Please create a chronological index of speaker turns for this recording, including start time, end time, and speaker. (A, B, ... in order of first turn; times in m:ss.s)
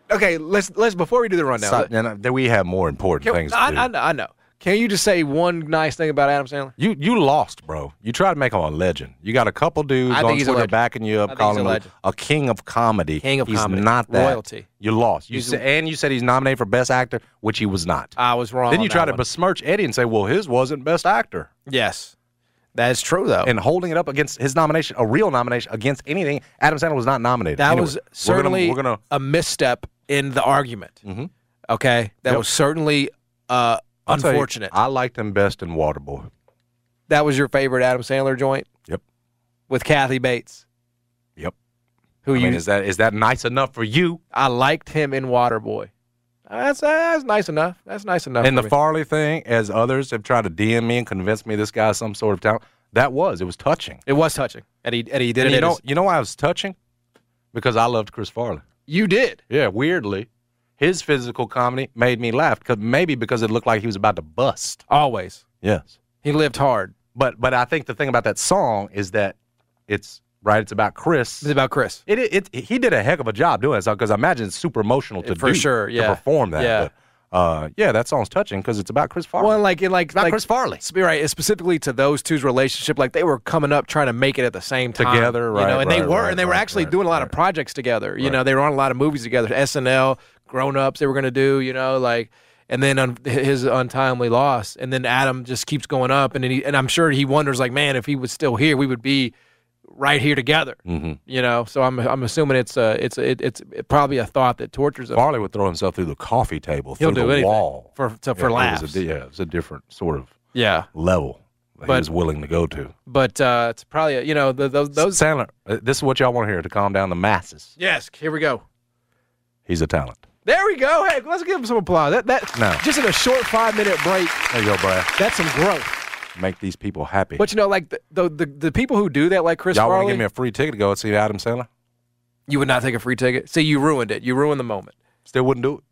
0:00.1-0:01.9 A
0:01.6-0:03.9 B
0:03.2-0:06.8 A
0:06.8-0:18.1 B
0:10.1-0:10.7 A
0:11.3-0:11.9 A
0:13.2-0:14.7 A
0:15.3-0:15.6 A
0:18.2-0:19.2 A
0:18.7-0:21.5 B
0:21.7-0:22.1 A
0:22.8-0:23.5 A
0:23.4-0:29.0 B
0:27.6-0:31.0 A
0:31.0-0:31.3 B
0:31.7-0:34.7 A
0:34.1-0:36.3 B
0:37.1-0:38.7 A
0:39.7-0:40.6 A
0:42.2-0:42.6 A
0:42.3-0:44.2 B
0:44.3-0:45.9 A
0:46.5-0:48.7 A
0:48.4-0:54.0 B
0:54.1-0:55.8 A
0:55.4-0:56.8 B
0:57.5-0:58.6 B
0:58.9-0:59.4 A
0:59.5-1:00.3 B
1:00.8-1:04.8 B
1:04.9-1:05.4 A
1:05.6-1:05.9 B
1:06.2-1:06.9 A
1:07.2-1:09.4 B
1:09.9-1:11.5 B
1:11.4-1:12.0 A
1:12.1-1:19.6 B
1:15.2-1:16.9 A
1:19.4-1:39.3 A
1:20.1-1:20.8 B
1:25.0-1:27.3 B
1:39.9-1:45.2 A
1:40.9-1:41.2 B
1:45.1-1:50.3 B
1:47.0-1:49.0 A
1:50.5-1:50.9 A
1:51.0-1:52.9 B
1:53.1-1:55.2 A
1:55.0-1:57.7 B
1:57.8-1:58.6 A
1:59.7-2:00.2 B
2:00.4-2:04.4 A
2:02.6-2:02.8 B
2:04.5-2:05.1 B
2:05.2-2:06.0 A
2:06.4-2:07.4 B
2:07.4-2:10.2 A
2:09.7-2:11.7 B
2:12.5-2:15.0 A
2:15.3-2:15.8 B